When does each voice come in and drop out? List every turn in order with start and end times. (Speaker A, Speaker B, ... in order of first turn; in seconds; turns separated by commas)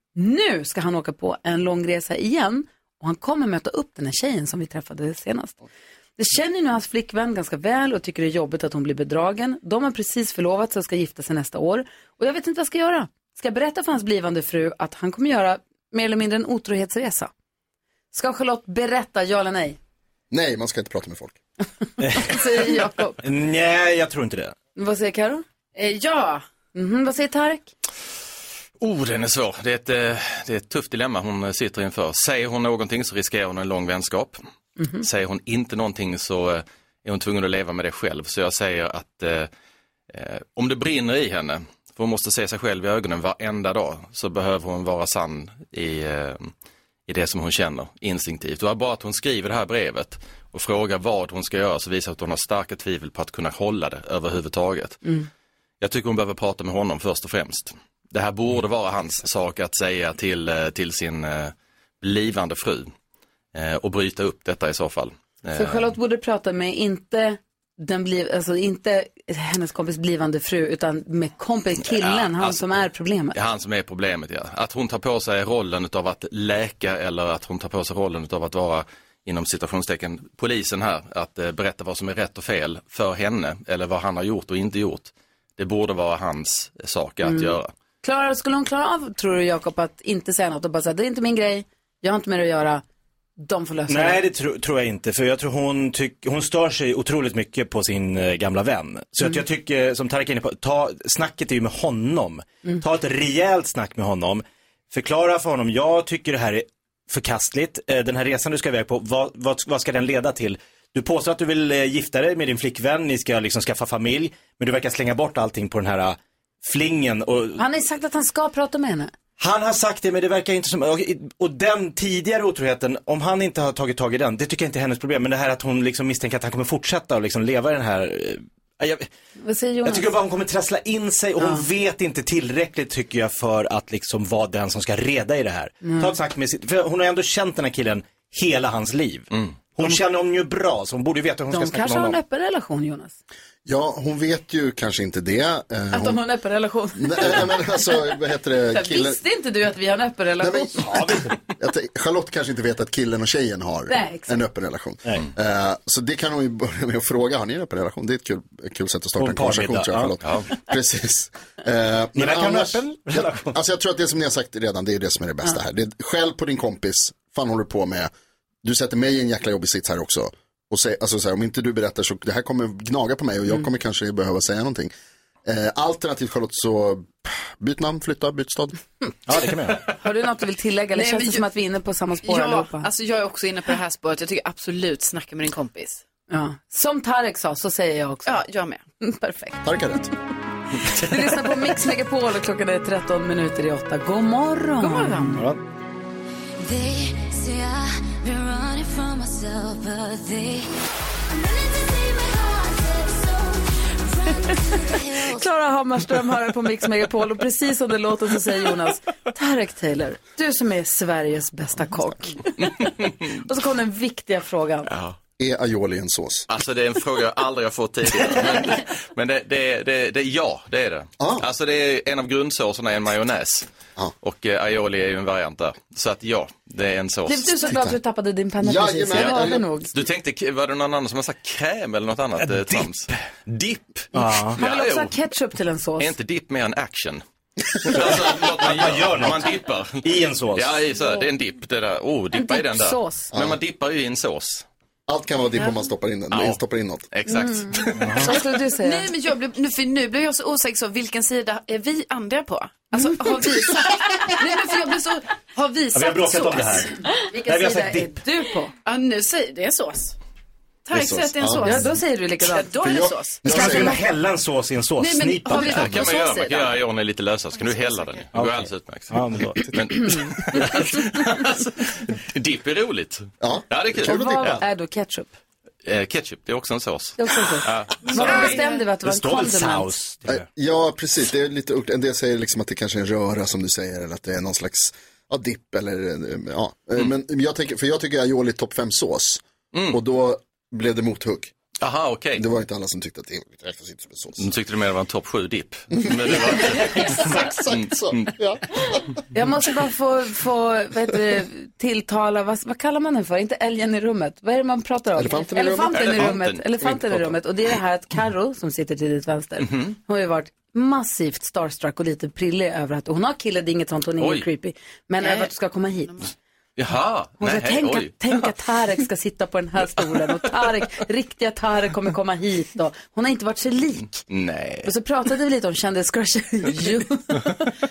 Speaker A: 0.1-5.6, Speaker A: 6.2-17.3, Speaker A: 18.1-19.8, Speaker B: 20.3-21.4, Speaker C: 22.0-24.6, Speaker A: 22.2-23.2, Speaker A: 24.8-25.4, Speaker D: 25.8-26.5, Speaker A: 26.7-27.7, Speaker E: 28.8-34.4, Speaker A: 34.8-35.0, Speaker E: 35.0-39.5, Speaker E: 40.1-46.5, Speaker E: 47.1-55.0, Speaker E: 55.8-62.9, Speaker E: 63.5-66.0, Speaker A: 65.5-73.4, Speaker E: 71.8-72.8, Speaker E: 73.3-87.7, Speaker A: 87.2-92.8, Speaker A: 93.4-94.2, Speaker C: 93.9-117.6, Speaker A: 117.6-119.1, Speaker C: 119.4-129.1, Speaker A: 129.4-130.1, Speaker C: 129.8-142.2, Speaker A: 131.4-131.7, Speaker A: 135.8-136.1, Speaker A: 141.5-143.2, Speaker B: 143.7-146.2, Speaker A: 145.9-147.9, Speaker B: 147.0-149.2, Speaker A: 148.7-151.0, Speaker B: 150.4-168.1, Speaker C: 150.9-151.3, Speaker A: 153.9-154.4, Speaker C: 159.2-160.2, Speaker C: 162.2-163.6, Speaker B: 168.6-174.9, Speaker B: 175.4-178.8, Speaker C: 179.3-179.8, Speaker A: 180.0-182.9, Speaker D: 180.9-181.5, Speaker D: 182.2-186.0, Speaker A: 186.3-188.4, Speaker D: 188.2-188.8, Speaker A: 189.0-189.7, Speaker B: 189.6-190.1, Speaker A: 190.9-195.4, Speaker D: 194.8-195.4, Speaker C: 195.3-195.6, Speaker F: 196.6-200.8, Speaker F: 201.3-205.5, Speaker A: 205.3-212.8, Speaker E: 212.6-213.3, Speaker A: 213.4-214.9, Speaker E: 214.9-215.2, Speaker B: 215.4-216.5, Speaker E: 216.5-223.7, Speaker B: 221.2-221.5, Speaker E: 224.2-227.7, Speaker A: 227.3-229.9, Speaker B: 228.6-229.7, Speaker E: 229.1-235.2, Speaker C: 232.4-233.2, Speaker C: 234.1-234.6, Speaker A: 234.6-236.1, Speaker E: 236.0-237.2, Speaker E: 237.8-244.7, Speaker C: 237.9-240.8, Speaker A: 242.3-243.3, Speaker B: 243.3-243.6, Speaker B: 245.1-247.1, Speaker E: 246.3-246.6, Speaker E: 247.1-248.3, Speaker A: 247.3-249.1, Speaker C: 248.0-248.3, Speaker D: 248.8-256.9, Speaker C: 255.9-256.9, Speaker A: 257.3-258.7, Speaker C: 257.5-258.2, Speaker D: 258.9-260.2, Speaker D: 260.9-263.9, Speaker B: 260.9-261.7, Speaker A: 261.6-262.7, Speaker B: 262.8-264.0, Speaker C: 263.5-266.0, Speaker D: 265.0-266.8, Speaker E: 265.6-274.6, Speaker C: 268.3-270.0, Speaker B: 273.4-274.6, Speaker A: 274.0-275.3, Speaker E: 275.9-278.0, Speaker A: 277.2-280.0, Speaker D: 278.1-278.9, Speaker C: 278.1-280.5, Speaker B: 280.3-291.5, Speaker E: 289.7-290.0, Speaker E: 291.8-292.4, Speaker B: 292.4-294.5, Speaker E: 294.4-298.3, Speaker B: 296.3-299.0, Speaker A: 299.3-316.2, Speaker B: 305.2-307.3, Speaker E: 305.9-307.0, Speaker E: 309.6-310.0, Speaker E: 314.2-314.5, Speaker D: 315.2-315.5, Speaker D: 316.1-316.3, Speaker E: 316.8-318.5, Speaker A: 317.4-324.2, Speaker E: 324.3-324.9, Speaker A: 324.8-327.6